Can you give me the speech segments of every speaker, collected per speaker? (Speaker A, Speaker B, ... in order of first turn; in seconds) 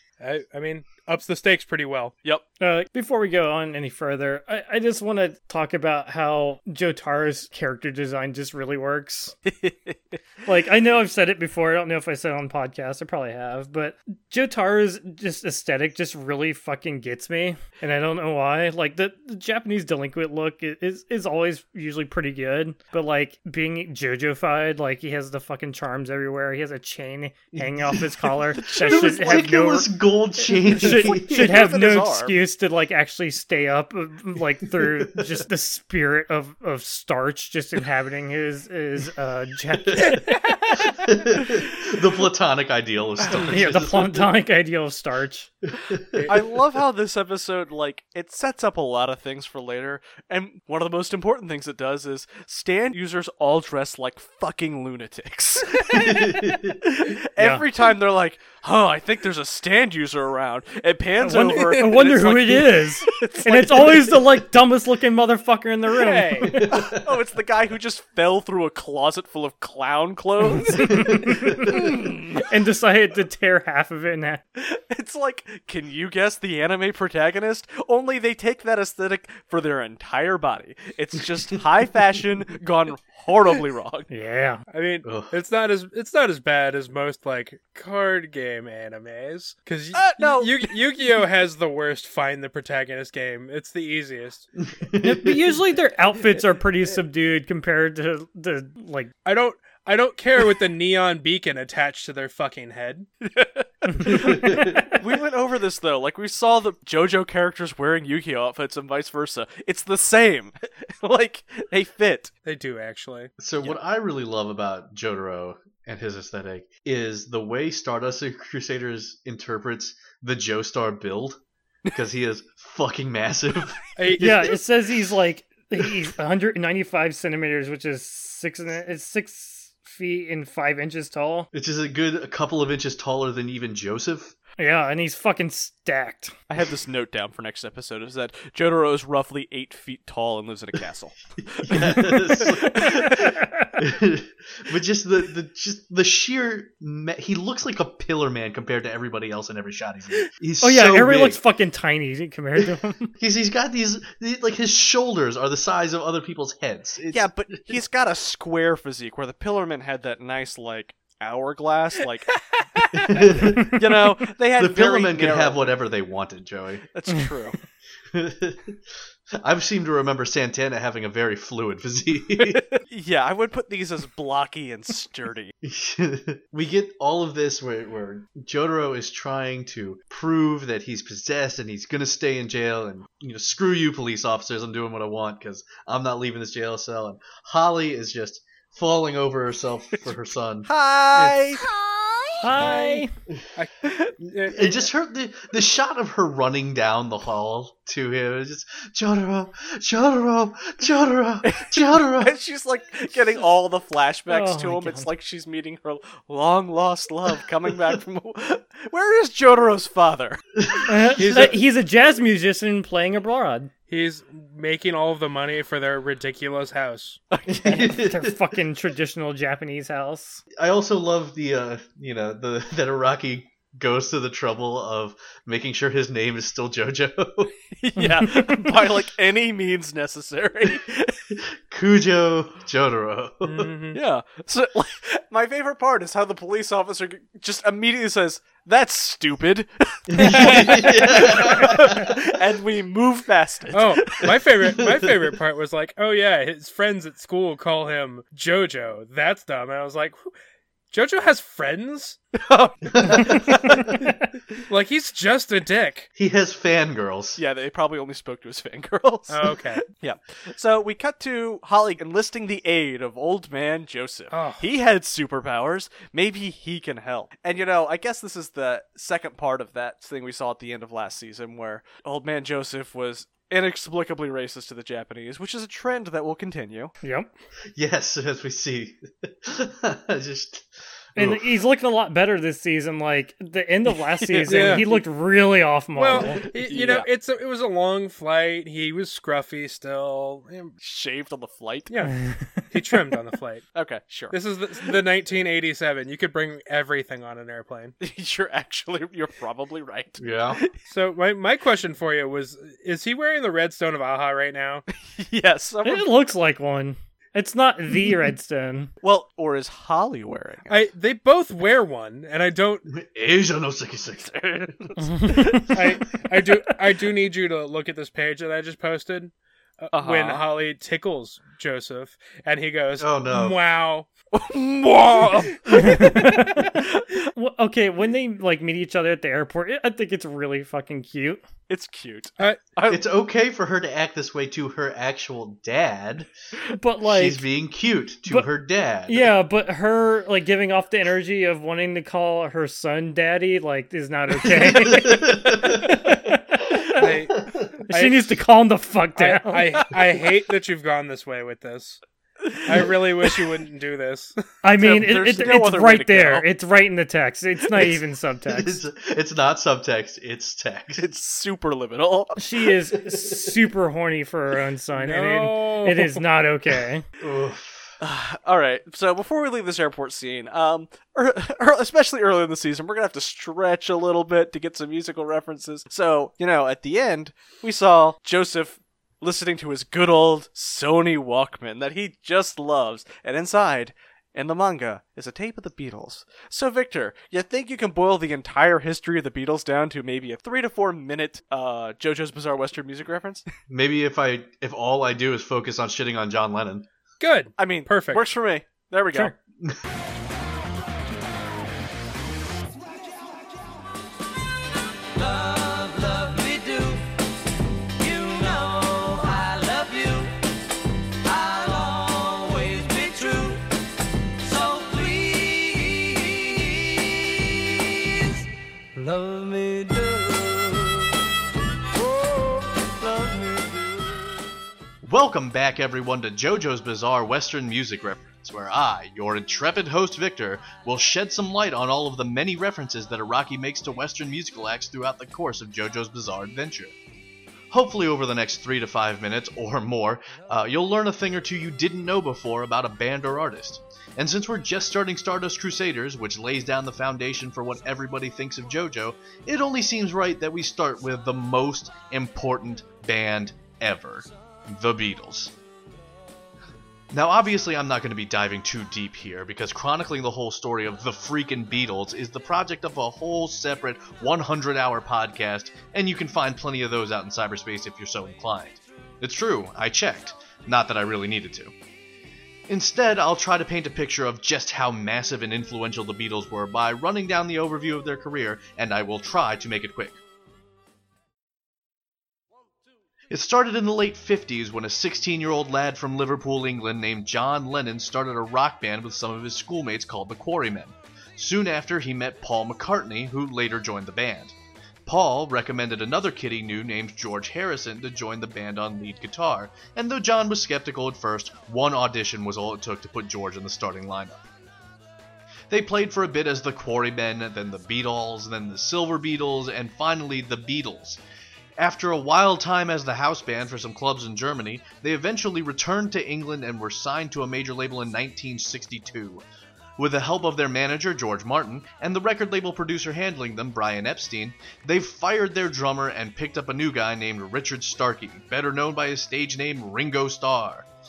Speaker A: 0.2-2.1, 40.0-40.8, 46.1-46.4, 61.5-62.0, 66.0-66.6, 84.7-94.5, 99.2-103.1, 112.4-113.3, 124.0-124.5, 162.8-163.1, 191.1-191.4, 192.4-194.9, 211.2-211.6, 213.9-217.2, 233.4-234.0, 240.2-241.4, 243.7-250.3, 250.9-252.2, 254.6-256.1, 259.3-259.8, 264.3-264.6, 284.4-284.9, 285.9-290.7, 291.9-292.1, 292.7-293.6, 294.3-297.9, 300.9-304.8, 310.7-312.9, 315.7-324.1, 325.2-326.7, 346.9-348.4, 349.1-352.0, 352.6-354.3, 364.9-366.2, 397.2-398.2
Speaker B: 2.6-9.3, 10.4-29.9, 30.5-40.7, 43.3-45.5, 57.4-57.6, 61.2-66.8, 70.5-74.4, 84.1-84.6, 95.0-99.1, 103.9-104.9, 124.2-131.5, 134.6-136.3, 142.7-143.7, 150.6-153.1, 192.4-193.1, 204.3-205.1, 210.8-213.7, 217.6-220.4, 228.0-228.8, 277.0-277.3, 281.2-286.4, 292.1-292.7, 305.8-308.9, 315.0-315.7, 325.7-331.4, 336.7-337.4, 339.1-347.1, 347.9-349.9, 354.6-358.8, 362.4-367.0
Speaker C: 9.4-10.2, 28.6-29.4, 30.8-32.4, 46.3-64.2, 66.7-72.4, 74.5-84.1, 89.9-90.8, 103.2-112.3, 136.5-143.3, 157.1-162.3, 162.9-165.7, 166.9-167.6, 172.4-175.5, 190.7-191.6, 193.8-194.1, 201.4-210.4, 217.3-217.9, 227.8-231.2, 233.9-244.3, 252.3-253.9, 257.4-276.9, 284.1-285.0, 286.1-287.1, 290.8-291.9, 293.7-294.9, 298.0-300.7, 305.0-306.1, 309.0-310.8, 314.4-315.7, 319.9-320.4, 324.3-327.3, 331.7-333.0, 352.4-352.9, 354.8-356.4, 360.9-362.4, 368.0-393.4, 397.6-399.3
Speaker D: 27.5-31.7, 34.8-35.2, 39.9-40.2, 40.9-44.3, 45.7-46.3, 55.9-56.8, 66.5-67.0, 70.8-72.0, 85.0-85.3, 94.6-95.6, 104.1-104.8, 113.4-121.4, 121.9-124.5, 131.5-134.3, 141.4-143.2, 143.8-151.4, 153.2-157.8, 162.9-163.8, 164.6-166.8, 168.1-168.8, 169.3-172.6, 175.6-190.7, 194.5-202.3, 210.6-211.5, 217.6-218.4, 220.5-227.5, 231.3-233.7, 240.1-242.2, 244.8-245.2, 252.9-254.0, 256.1-257.4, 277.7-281.6, 300.2-300.6, 312.9-314.7, 323.0-323.6, 332.9-336.3, 337.0-339.3, 344.4-346.1, 347.4-347.7, 358.5-361.1, 363.0-363.6, 367.2-367.9, 393.7-396.9, 425.0-436.9, 437.7-455.5, 457.1-471.7, 472.7-480.2, 483.3-494.5, 495.1-504.4, 505.7-511.2, 511.8-519.4, 520.0-530.9
Speaker E: 191.5-192.5, 405.1-407.0, 407.9-410.3, 411.2-413.6, 414.4-418.4, 418.9-421.2, 421.9-424.3